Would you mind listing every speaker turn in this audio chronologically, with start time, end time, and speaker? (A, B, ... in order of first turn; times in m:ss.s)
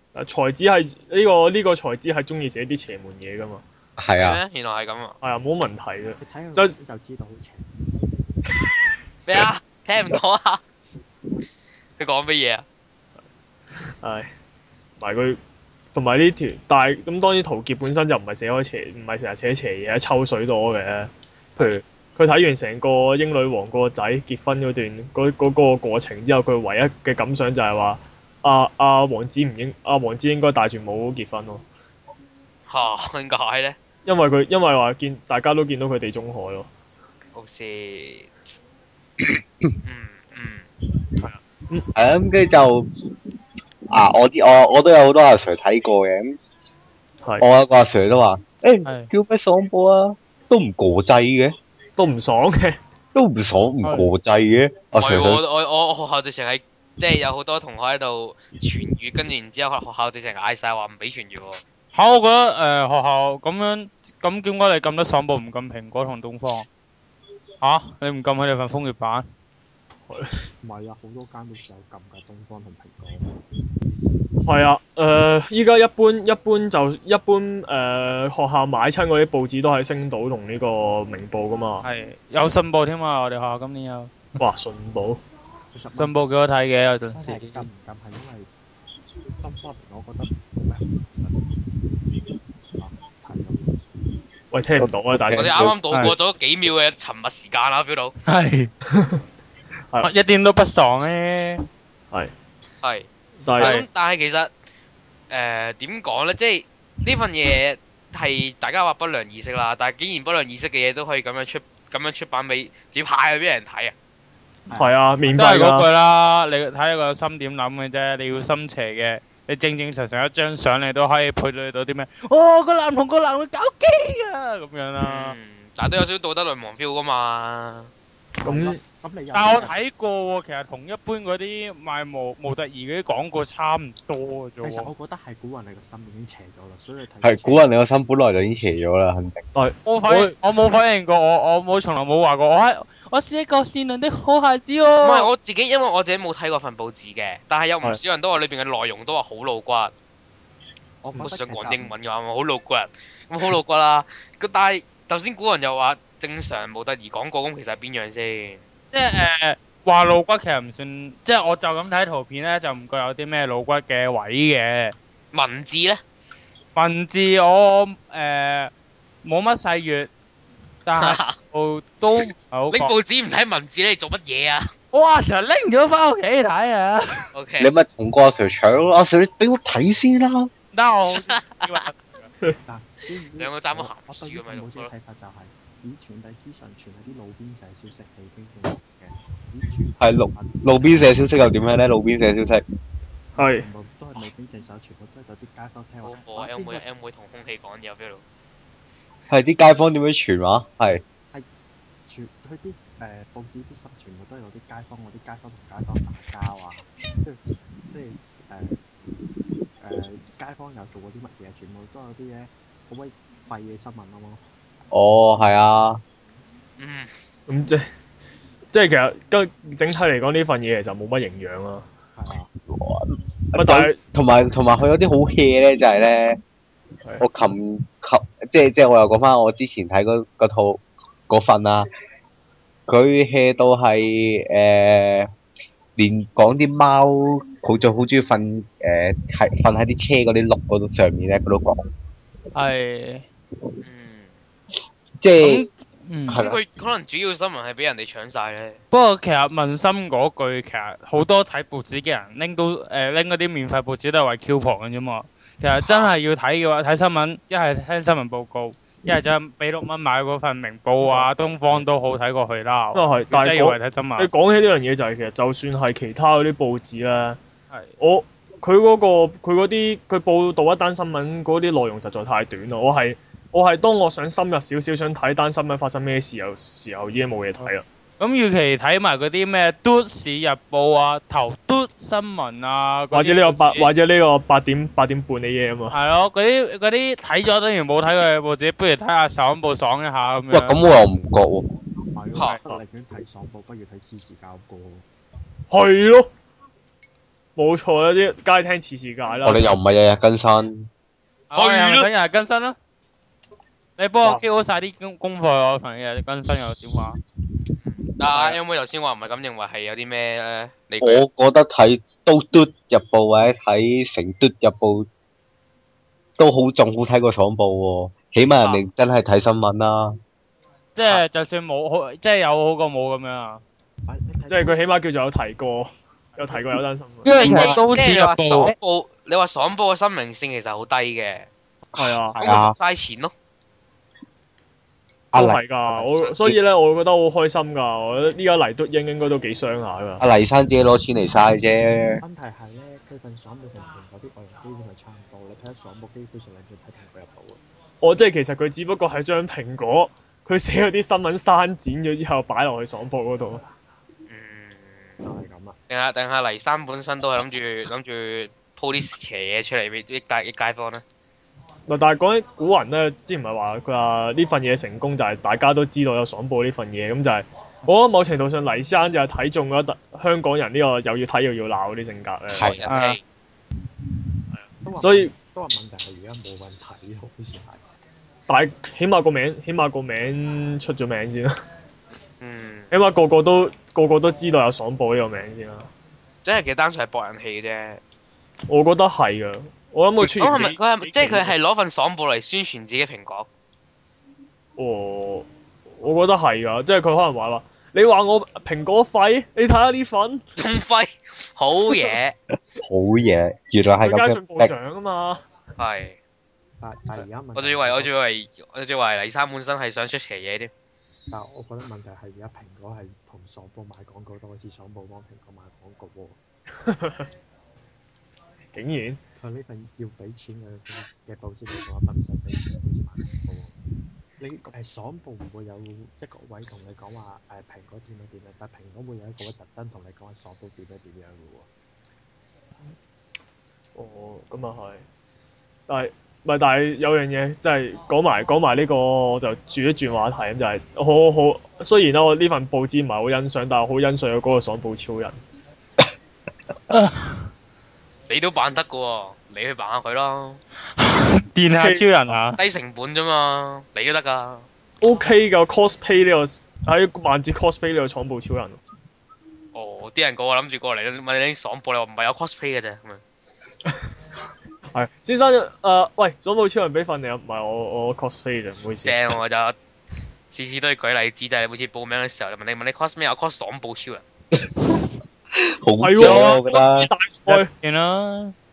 0:00.1-0:03.6 A
0:04.0-0:04.4 B
0:04.2-0:05.2 C
0:05.2-0:06.8 A
0:06.2-0:07.6 D
0:09.3-0:10.6 C
0:12.0-0:12.6 C
0:13.8-0:14.3 A
0:15.0-0:15.4 A
0:15.9-0:31.6 A
0:32.7-0:33.8 C
0:34.0-0:36.7 A
0:37.3-0:38.3 C
0:39.2-0:39.7 B
0:39.8-0:40.6 C
0:41.2-0:41.9 A
0:41.9-0:43.1 B
0:43.9-0:46.3 B
0:47.4-0:51.5 B
0:52.0-0:52.8 A
0:53.1-0:55.4 B
0:53.8-0:54.1 E
0:54.9-1:01.6 C
1:01.9-1:06.7 E
1:07.6-1:09.3 E
1:10.1-1:10.4 A
1:10.6-1:13.3 D
1:14.4-1:21.9 A
1:21.8-1:24.3 E
1:24.4-1:25.2 A
1:25.7-1:26.3 D
1:26.0-1:27.7 E
1:27.1-1:28.5 D
1:29.4-1:31.4 D
1:32.8-1:33.8 D
1:34.5-1:35.6 A
1:34.8-1:35.8 B
1:35.3-1:38.1 C
1:35.9-1:36.1 E
1:38.2-1:38.7 E
1:38.9-1:39.2 A
1:40.0-1:41.6 E
1:42.8-1:43.1 C
1:43.4-1:43.7 A
1:43.6-1:43.9 E
1:43.6-1:44.5 C
1:45.3-1:53.9 C
1:54.7-1:55.4 D
1:54.7-1:55.9 A
1:55.4-2:05.4 E
2:05.0-2:07.9 C
2:08.4-2:09.8 D
2:08.4-2:08.8 A
2:09.3-2:14.9 E
2:14.6-2:17.6 D
2:17.2-2:19.4 B
2:19.5-2:20.4 A
2:19.8-2:25.3 E
2:25.0-2:29.9 C
2:31.0-2:31.9 D
2:31.2-2:38.6 C
2:38.9-2:44.9 E
2:45.3-2:46.0 C
2:46.7-2:48.7 E
2:49.2-2:50.1 E
2:50.8-2:52.9 E
2:51.0-2:51.4 C
2:52.7-2:54.7 C
2:54.9-2:57.3 E
2:57.3-2:57.7 C
2:57.6-3:00.5 B
3:00.7-3:02.3 E
3:01.2-3:01.7 C
3:02.6-3:11.3 D
3:03.4-3:04.9 C
3:10.0-3:12.6 B
3:13.3-3:16.8 D
3:13.4-3:13.7 A
3:16.0-3:18.2 C
3:19.3-3:21.0 B
3:22.1-3:28.9 D
3:29.8-3:34.4 D
3:34.9-3:36.0 B
3:36.8-3:37.1 C
3:37.5-3:37.9 A
3:38.7-3:41.8 A
3:42.2-3:42.5 D
3:42.7-3:46.4 B
3:43.6-3:44.0 A
3:47.2-3:51.9 B
3:52.9-3:55.3 B
3:56.0-4:01.8 B
4:02.5-4:03.2 E
4:03.8-4:04.3 C
4:05.2-4:05.6 B
4:05.4-4:06.4 E
4:06.3-4:06.6 B
4:06.4-4:08.8 C
4:08.9-4:24.3 E
4:15.8-4:16.1 C
4:21.0-4:21.3 A
4:22.9-4:27.4 A
4:28.0-4:37.8 A
4:37.6-4:43.9 E
4:43.1-4:46.0 A
4:45.9-4:50.8 E
4:50.5-4:51.7 B
4:52.1-4:55.0 D
4:55.7-4:56.3 A
4:57.6-4:59.7 A
4:59.4-5:00.9 B
5:01.5-5:02.8 E
5:01.5-5:02.1 C
5:04.0-5:07.2 E
5:07.8-5:11.2 C
5:11.0-5:15.0 B
5:16.4-5:20.1 B
5:20.9-5:23.6 E
5:24.0-5:24.9 D
5:24.5-5:27.3 A
5:27.2-5:28.7 E
5:27.3-5:31.5 C
5:27.4-5:27.8 B
5:32.0-5:32.4 A
5:32.0-5:32.8 B
5:32.4-5:33.3 C
5:35.3-5:36.6 B
5:35.3-5:40.2 A
5:40.2-5:42.2 B
5:42.2-5:47.6 D
5:48.0-5:53.6 A
5:54.3-5:55.2 C
5:55.2-5:55.8 D
5:55.9-6:01.0 C
6:01.9-6:12.8 A
6:12.5-6:12.9 B
6:12.6-6:13.2 C
6:12.9-6:13.2 E
6:14.5-6:15.3 A
6:14.8-6:17.8 D
6:18.5-6:21.5 A
6:22.4-6:22.9 C
6:22.9-6:25.9 A
6:26.4-6:28.0 C
6:28.7-6:31.5 A
6:30.2-6:33.5 C
6:34.8-6:35.5 A
6:36.0-6:40.4 A
6:40.6-6:42.3 C
6:42.8-6:44.7 B
6:44.0-6:45.4 A
6:45.8-6:46.2 C
6:46.8-6:48.1 D
6:47.5-6:50.7 C
6:51.3-6:56.4 D
6:56.8-6:57.3 A
6:58.7-6:59.2 A
6:59.4-7:03.7 D
7:04.4-7:11.7 D
7:14.0-7:15.0 A
7:15.9-7:25.4 A
7:26.9-7:27.4 E
7:28.3-7:30.6 C
7:31.0-7:32.6 E
7:31.7-7:32.0 A
7:32.6-7:34.6 C
7:35.0-7:38.8 A
7:39.7-7:43.2 C
7:44.9-7:49.2 A
7:49.0-7:49.7 C
7:50.5-7:54.2 C
7:54.5-7:55.0 B
7:55.6-7:57.1 B
7:56.0-7:57.7 A
7:56.2-7:56.6 E
7:57.5-7:58.5 E